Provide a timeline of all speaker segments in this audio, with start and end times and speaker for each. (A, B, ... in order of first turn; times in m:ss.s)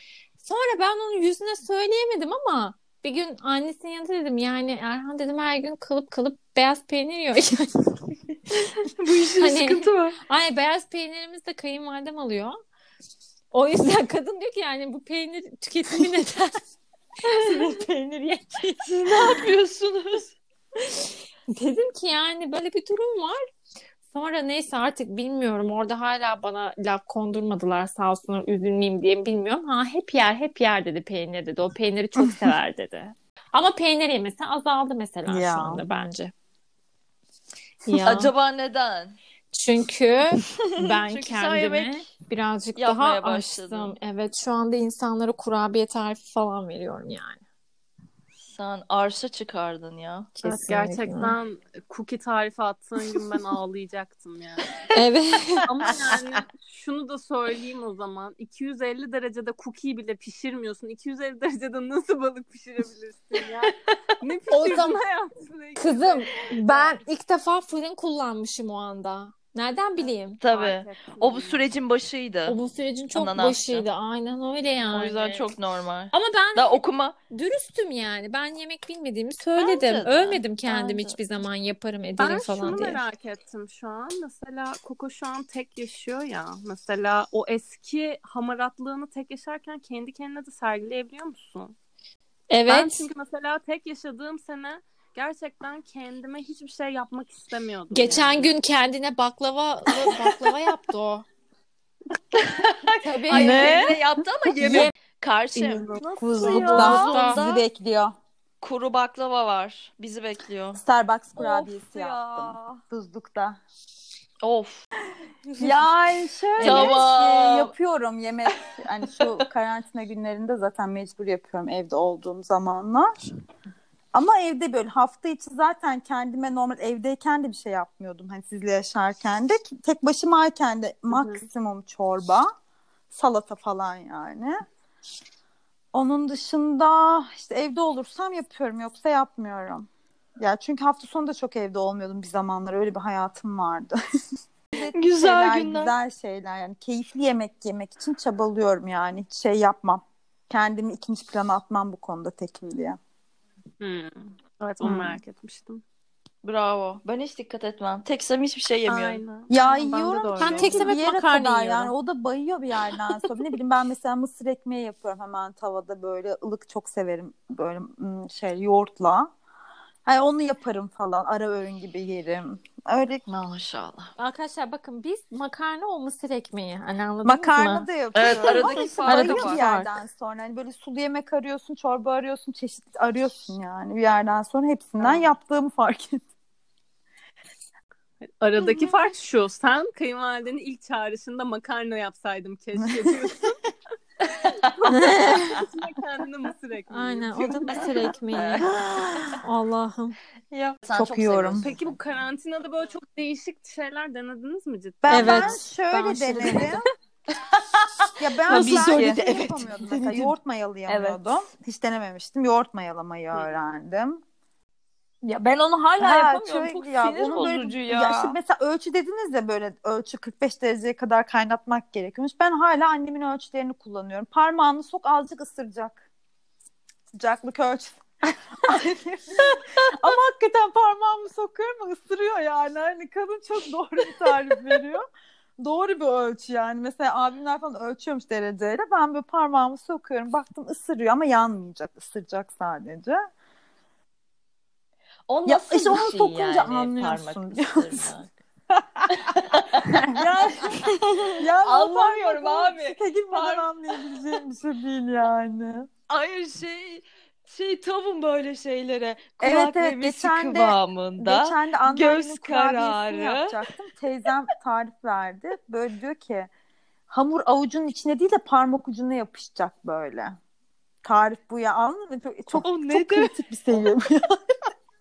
0:00.4-0:08.4 A
0:09.0-0:10.2 B
0:09.3-0:12.6 A
0:13.5-0:16.6 A
0:17.3-0:19.3 A
0:18.9-0:20.3 B
0:19.0-0:19.6 C
0:21.5-0:23.4 A
0:24.1-0:36.3 A
0:35.2-0:35.8 D
0:37.8-0:38.3 A
0:38.0-0:39.2 B
0:39.5-0:47.4 A
0:40.8-0:42.1 B
0:42.8-0:43.9 B
0:48.4-0:50.4 B
0:50.4-0:51.3 A
0:50.4-0:54.8 E
0:54.9-0:55.6 A
0:55.6-1:07.0 E
1:04.5-1:05.0 A
1:05.8-1:10.4 A
1:10.0-1:11.6 E
1:10.4-1:12.6 B
1:12.5-1:15.4 A
1:13.1-1:13.9 B
1:14.9-1:17.2 B
1:16.1-1:23.0 A
1:19.6-1:21.2 B
1:22.2-1:31.7 E
1:32.5-1:33.0 A
1:32.7-1:38.5 E
1:37.9-1:41.2 A
1:42.3-1:47.6 B
1:43.0-1:43.9 A
1:43.3-1:44.0 D
1:44.6-1:44.9 D
1:44.6-1:44.9 A
1:45.5-1:48.1 D
1:46.2-1:46.8 C
1:46.4-1:47.4 A
1:48.6-1:50.8 B
1:50.7-1:53.6 D
1:51.4-1:51.8 B
1:51.6-1:52.5 C
1:54.4-1:54.8 B
1:55.6-2:03.1 D
1:56.6-1:57.0 A
1:56.6-1:57.7 B
2:04.1-2:12.5 D
2:11.1-2:11.4 E
2:13.1-2:14.6 D
2:15.9-2:24.0 D
2:24.7-2:33.0 D
2:24.8-2:25.9 B
2:33.8-2:35.8 E
2:34.8-2:35.2 D
2:36.4-2:39.2 B
2:38.9-2:40.9 E
2:39.5-2:49.3 D
2:40.4-2:41.9 A
2:50.0-2:53.2 D
2:53.3-2:54.1 B
2:54.2-2:57.9 A
2:57.2-3:06.2 D
2:58.1-2:59.6 B
2:58.5-3:00.0 A
3:08.4-3:13.6 E
3:14.4-3:14.7 B
3:14.6-3:17.9 E
3:14.9-3:15.6 A
3:16.9-3:18.7 A
3:18.3-3:19.4 B
3:19.4-3:20.2 A
3:20.5-3:22.0 B
3:20.9-3:21.7 D
3:21.6-3:25.6 E
3:25.0-3:26.8 D
3:25.1-3:26.8 A
3:27.5-3:29.3 B
3:28.2-3:34.2 D
3:28.5-3:30.3 C
3:30.9-3:31.2 C
3:35.2-3:38.3 C
3:36.0-3:46.0 D
3:47.2-3:55.0 D
3:55.6-4:03.2 D
4:05.3-4:08.3 B
4:05.4-4:08.1 D
4:08.7-4:10.8 D
4:09.1-4:13.7 B
4:11.4-4:15.9 D
4:16.1-4:23.6 B
4:19.4-4:26.5 D
4:27.1-4:30.4 D
4:31.0-4:34.4 D
4:32.6-4:33.3 B